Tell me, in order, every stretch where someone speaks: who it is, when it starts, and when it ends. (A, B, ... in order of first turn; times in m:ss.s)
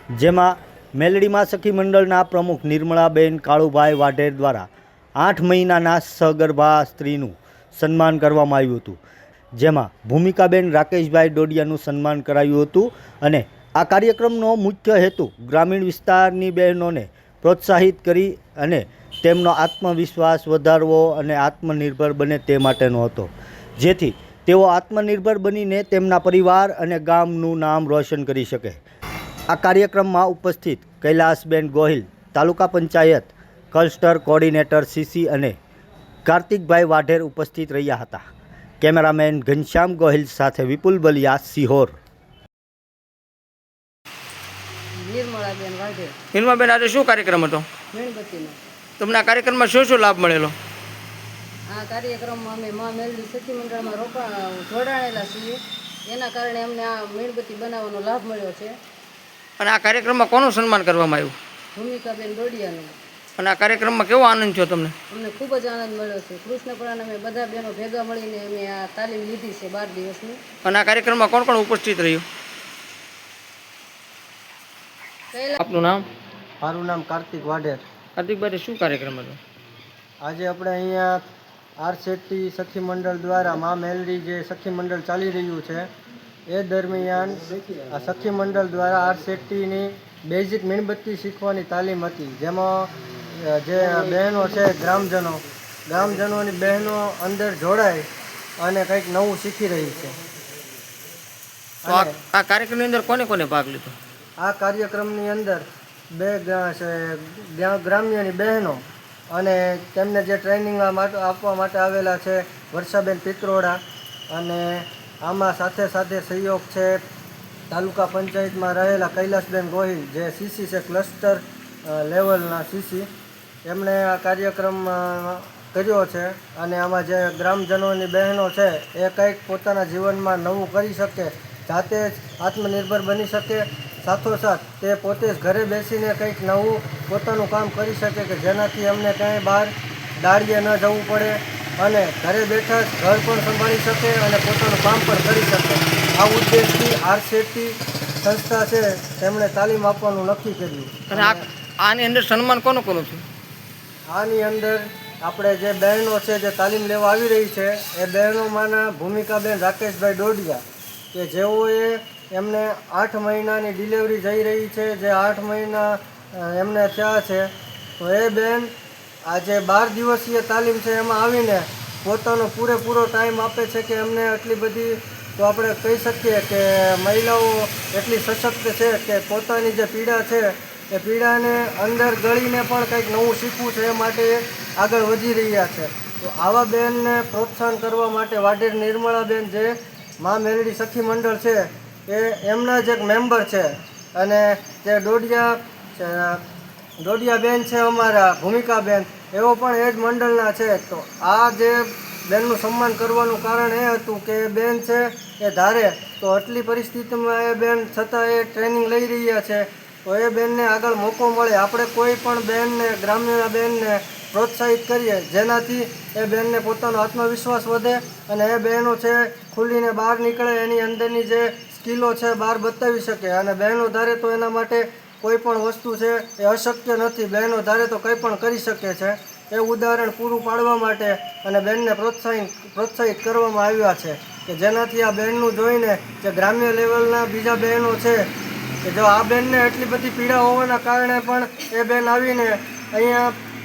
0:00.1-0:09.0 A
0:09.6-0:28.8 A
0:29.5-0:35.6 A
0:36.2-0:38.2 A
0:38.8-0:42.0 A
0:45.0-0:46.1 B
0:46.3-0:47.6 C
0:47.9-0:48.6 B
0:49.0-0:50.5 C
0:51.7-0:58.7 B
0:59.6-1:01.3 C
1:01.7-1:02.9 B
1:03.4-1:04.9 C
1:05.1-1:10.4 B
1:10.6-1:12.2 C
1:15.3-1:15.6 B
1:15.6-1:16.0 C
1:16.6-1:17.8 D
1:18.2-1:19.4 C
1:20.2-1:21.2 D
1:21.8-1:25.9 D
1:26.5-1:38.1 D
1:38.6-1:40.2 D
1:41.8-1:42.2 D
1:41.9-1:44.0 C
1:44.4-1:57.0 D
1:57.7-2:03.1 D
2:03.6-2:31.4 D
2:31.1-2:33.2 C
2:34.1-2:48.7 D
2:49.2-3:16.4 D
3:17.0-3:58.3 D
3:58.8-4:03.3 D